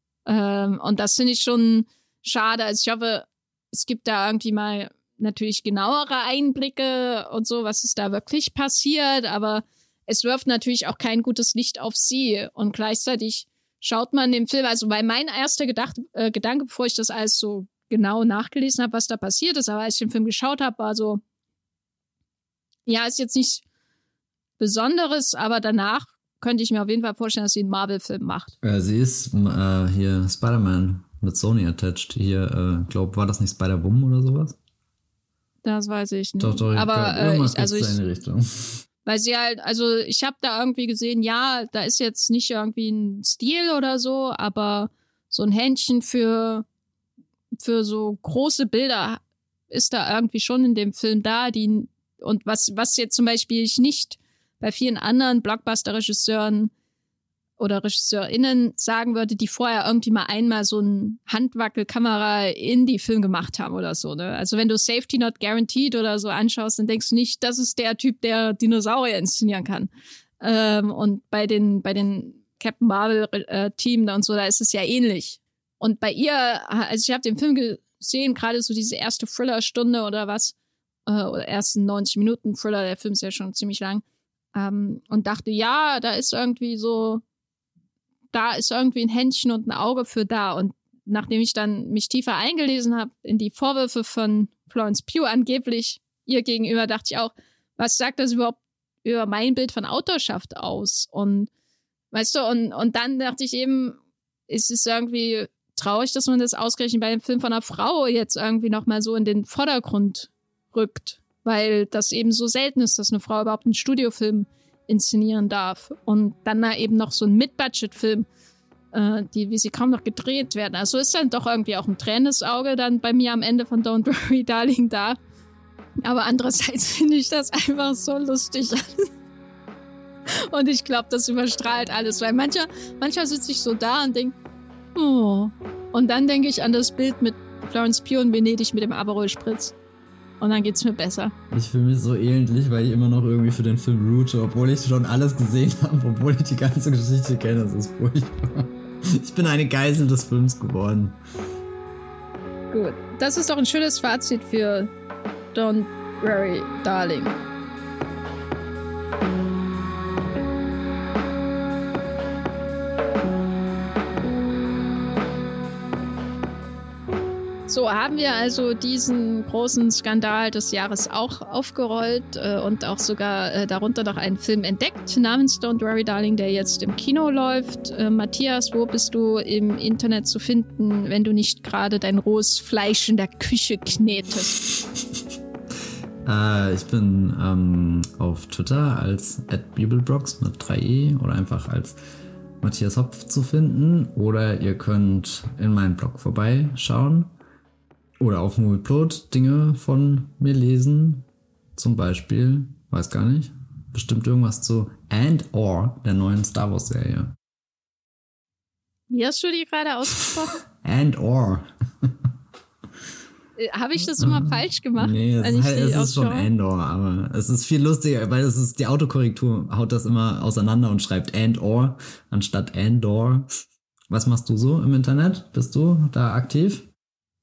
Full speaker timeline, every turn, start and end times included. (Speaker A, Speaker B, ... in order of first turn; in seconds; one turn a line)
Speaker A: 0.3-21.2
Speaker A: 22.9-23.6
Speaker A: 24.6-28.5
Speaker B: 28.6-34.6
Speaker A: 35.6-38.0
Speaker B: 36.4-38.8
Speaker A: 39.1-46.6
Speaker A: 47.6-56.7
Speaker A: 57.6-80.5
Speaker A: 81.1-87.2
Speaker A: 88.3-101.5
Speaker A: 102.1-118.3
Speaker A: 118.9-125.2
Speaker A: 126.0-129.1
Speaker A: 130.3-134.3
Speaker A: 134.9-139.8
Speaker A: 140.4-141.3
Speaker B: 141.5-151.2
Speaker A: 152.7-154.9
Speaker A: 155.5-157.4
Speaker A: 167.7-184.7
Speaker B: 186.2-192.0
Speaker B: 192.6-197.3
Speaker B: 198.2-201.2
Speaker B: 201.8-207.4
Speaker A: 209.1-210.6
Speaker B: 210.7-212.1
Speaker A: 213.6-216.5
Speaker B: 214.2-223.5
Speaker B: 224.1-226.9